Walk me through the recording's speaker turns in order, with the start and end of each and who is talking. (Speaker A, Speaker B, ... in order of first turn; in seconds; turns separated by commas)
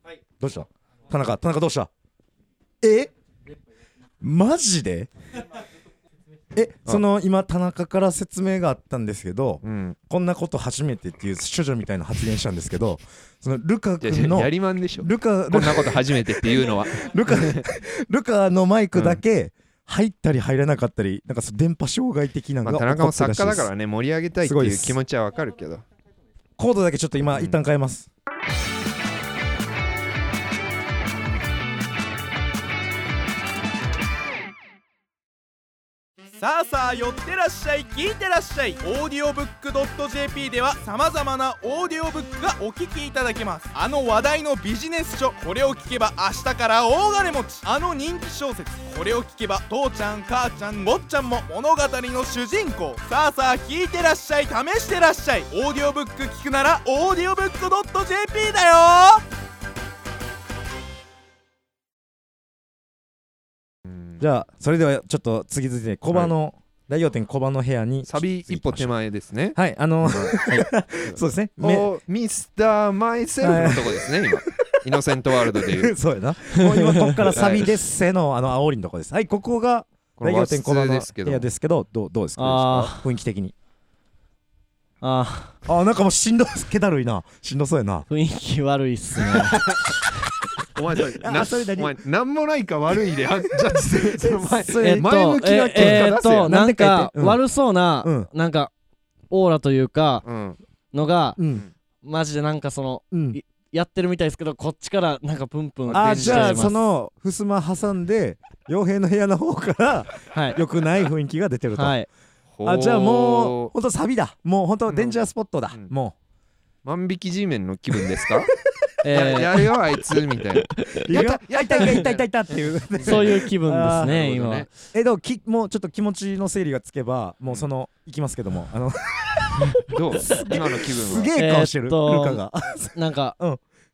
Speaker A: 0.4-1.9, Speaker A: 2.8-3.1, Speaker A: 4.2-5.1, Speaker A: 6.5-23.7, Speaker B: 9.6-10.0, Speaker B: 14.0-17.6, Speaker B: 18.9-19.2, Speaker B: 22.6-25.8, Speaker A: 24.4-25.0, Speaker A: 26.6-28.1, Speaker B: 27.3-27.6, Speaker C: 36.4-59.2, Speaker A: 64.2-68.9, Speaker B: 68.0-70.4, Speaker A: 69.5-71.9, Speaker B: 71.0-75.9, Speaker A: 73.4-74.7, Speaker A: 75.5-83.5, Speaker D: 76.5-77.3, Speaker B: 77.3-77.7, Speaker B: 80.2-81.5, Speaker D: 82.3-83.0, Speaker D: 85.0-85.5, Speaker A: 85.7-88.1, Speaker D: 88.1-89.7, Speaker B: 89.3-89.9, Speaker B: 90.6-96.5, Speaker A: 91.2-92.0, Speaker A: 93.7-97.4, Speaker D: 94.8-98.7, Speaker A: 98.0-98.3, Speaker D: 99.3-100.2, Speaker B: 100.2-100.6, Speaker D: 100.9-101.4, Speaker A: 101.4-101.6, Speaker D: 102.0-106.8, Speaker A: 103.1-103.4, Speaker B: 105.9-106.7, Speaker A: 105.9-112.0, Speaker D: 110.3-110.6, Speaker D: 111.8-112.1, Speaker B: 112.6-113.7, Speaker A: 112.6-116.1, Speaker B: 114.9-115.2, Speaker B: 116.8-118.5, Speaker D: 119.0-119.7, Speaker B: 119.1-123.4, Speaker D: 120.8-121.1, Speaker A: 121.0-124.2, Speaker D: 123.0-124.7, Speaker B: 124.0-124.7, Speaker A: 124.9-133.6, Speaker B: 129.8-131.3, Speaker D: 131.3-133.3